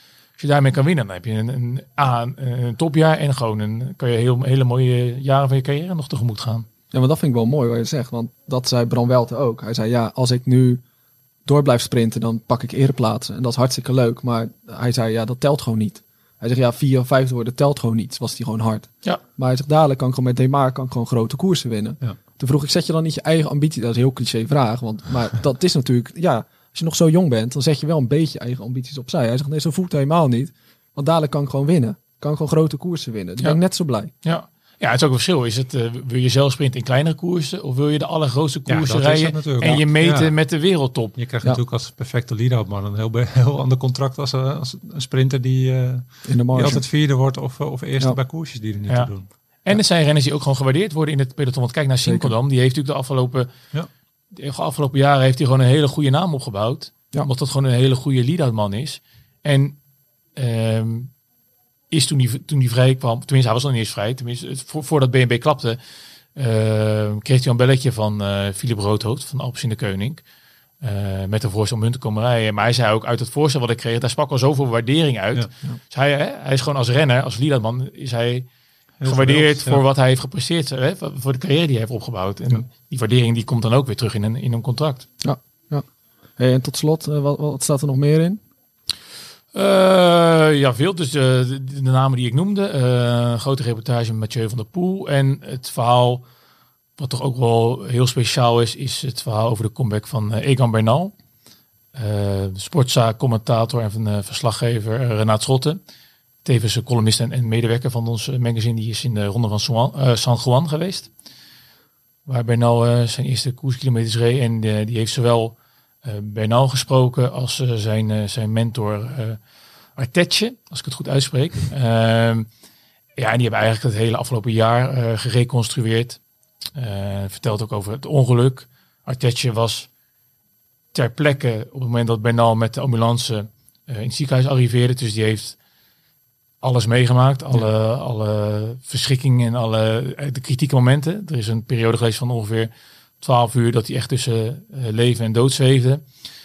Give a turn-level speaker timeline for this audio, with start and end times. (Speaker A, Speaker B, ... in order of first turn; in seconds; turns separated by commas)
Speaker A: 0.4-6.7, Speaker B: 6.9-10.8, Speaker B: 11.4-34.1, Speaker A: 34.2-41.2, Speaker C: 38.7-40.4, Speaker C: 41.1-49.3, Speaker B: 46.2-46.8, Speaker A: 49.6-53.5, Speaker B: 52.0-52.3, Speaker A: 54.3-59.8, Speaker A: 60.3-61.1, Speaker A: 61.9-65.8, Speaker A: 66.3-70.2, Speaker A: 70.8-78.5, Speaker C: 79.0-79.8, Speaker A: 79.0-85.1, Speaker B: 85.2-85.8, Speaker B: 86.4-88.4, Speaker A: 89.5-96.2, Speaker A: 97.0-101.1, Speaker A: 101.9-105.8, Speaker A: 106.4-111.1, Speaker A: 112.2-119.4, Speaker A: 120.0-122.5, Speaker A: 123.2-126.2, Speaker A: 126.7-129.9, Speaker A: 130.9-135.6, Speaker A: 136.6-146.0